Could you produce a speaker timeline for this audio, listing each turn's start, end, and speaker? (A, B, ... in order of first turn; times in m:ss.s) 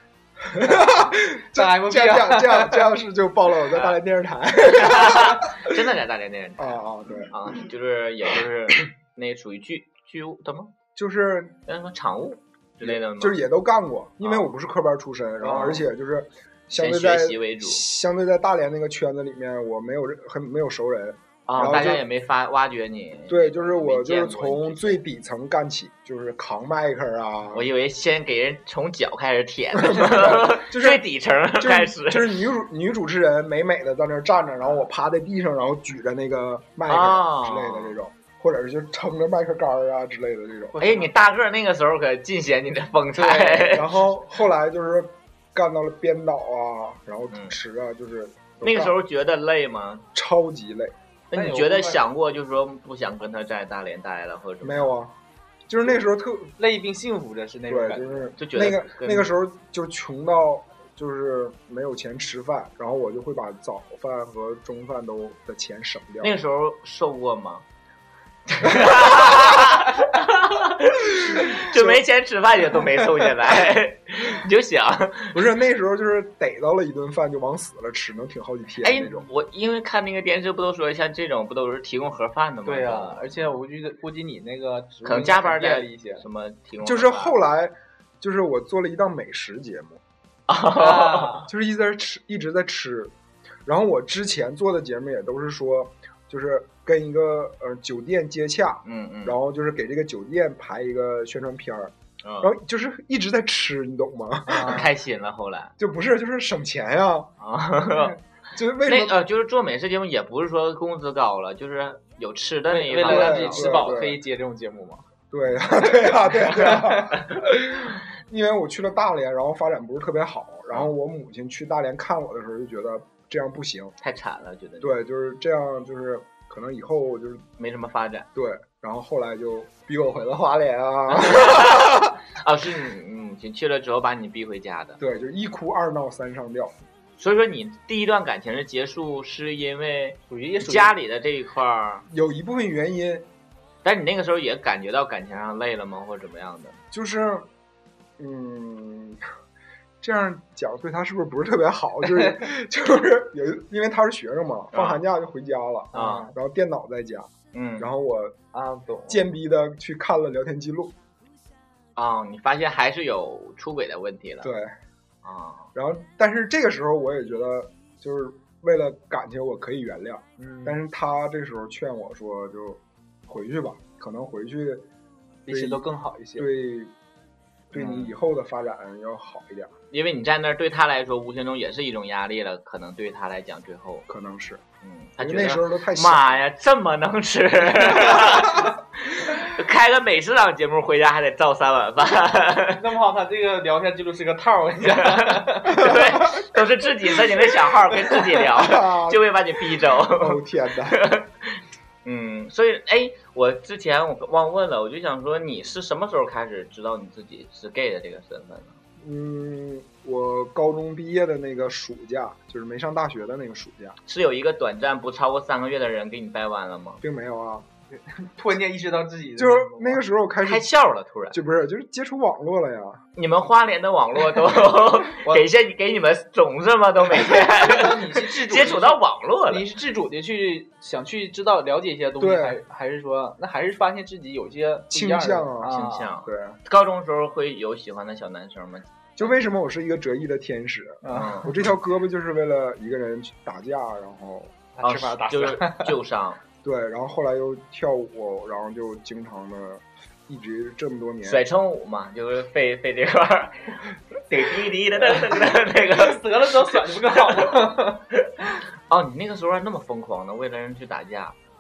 0:00.4-0:05.8 A
0:01.5-0:02.9 B
0:04.7-0:10.7 C
0:06.6-0:07.4 A
0:11.0-0:11.6 A
0:11.7-0:13.4 C
0:12.8-0:22.0 A
0:14.2-0:14.5 C
0:15.4-0:15.8 B
0:15.5-0:15.7 C
0:16.7-0:17.8 C
0:21.5-0:25.0 C
0:23.3-0:27.6 A
0:27.5-0:32.3 C
0:29.8-0:31.0 A
0:31.6-0:40.8 A
0:36.9-0:38.0 C
0:40.8-0:41.1 B
0:40.8-0:43.9 C
0:43.2-0:43.8 B
0:43.7-0:49.0 A
0:48.6-0:50.0 C
0:50.1-0:50.9 A
0:51.3-0:54.9 C
0:51.3-0:52.0 B
0:54.6-0:55.2 A
0:55.7-0:56.5 A
0:56.6-0:58.3 B
0:57.7-1:06.4 A
0:58.4-0:59.3 C
1:06.2-1:07.6 C
1:08.5-1:15.4 C
1:11.3-1:12.0 A
1:15.3-1:19.3 A
1:18.8-1:23.6 C
1:22.6-1:26.2 B
1:25.0-1:27.4 C
1:26.8-1:30.0 A
1:30.5-1:31.5 C
1:30.8-1:31.5 B
1:31.5-1:33.1 A
1:33.7-1:44.8 A
1:38.8-1:39.4 C
1:42.2-1:42.5 C
1:44.5-1:44.9 B
1:44.5-1:45.7 C
1:45.8-1:47.3 A
1:47.4-1:48.2 C
1:47.9-1:49.2 A
1:48.8-1:53.9 C
1:52.7-1:55.0 B
1:53.0-1:54.2 A
1:55.3-2:04.0 A
2:04.0-2:05.0 C
2:04.8-2:07.5 A
2:07.6-2:08.3 C
2:08.4-2:12.2 A
2:11.1-2:15.0 C
2:15.0-2:16.8 A
2:17.2-2:22.1 C
2:20.3-2:20.9 B
2:22.1-2:23.3 A
2:23.8-2:26.8 C
2:26.9-2:27.5 A
2:28.2-2:29.2 A
2:30.0-2:38.4 A
2:34.7-2:35.0 C
2:35.9-2:36.3 C
2:37.5-2:37.9 C
2:38.5-2:39.3 B
2:39.1-2:41.0 A
2:42.0-2:44.5 C
2:44.4-2:44.7 A
2:45.2-2:45.7 C
2:45.8-2:54.9 A
2:50.4-2:50.8 B
2:55.5-2:56.5 B
2:55.5-2:55.8 A
2:56.4-2:56.9 A
2:57.7-2:59.7 A
2:57.8-2:58.1 C
2:59.9-3:04.1 C
3:04.1-3:04.6 A
3:04.8-3:12.8 C
3:05.2-3:06.4 A
3:08.0-3:08.4 A
3:12.8-3:16.0 B
3:14.9-3:28.8 C
3:15.7-3:16.5 A
3:18.4-3:19.2 A
3:20.0-3:21.0 A
3:29.0-3:34.0 A
3:34.1-3:37.0 C
3:37.0-3:37.7 A
3:37.9-3:40.0 B
3:39.4-3:40.7 A
3:40.4-3:41.4 C
3:41.3-3:43.0 A
3:43.2-3:49.6 C
3:47.1-3:56.2 B
3:52.2-3:52.6 A
3:54.9-3:56.6 A
3:55.6-3:58.9 C
3:59.2-4:04.5 A
4:01.0-4:01.7 B
4:01.1-4:01.5 C
4:04.8-4:05.9 B
4:04.8-4:06.4 C
4:06.6-4:11.4 A
4:11.2-4:13.8 C
4:14.3-4:16.2 C
4:15.9-4:18.0 B
4:18.9-4:21.4 C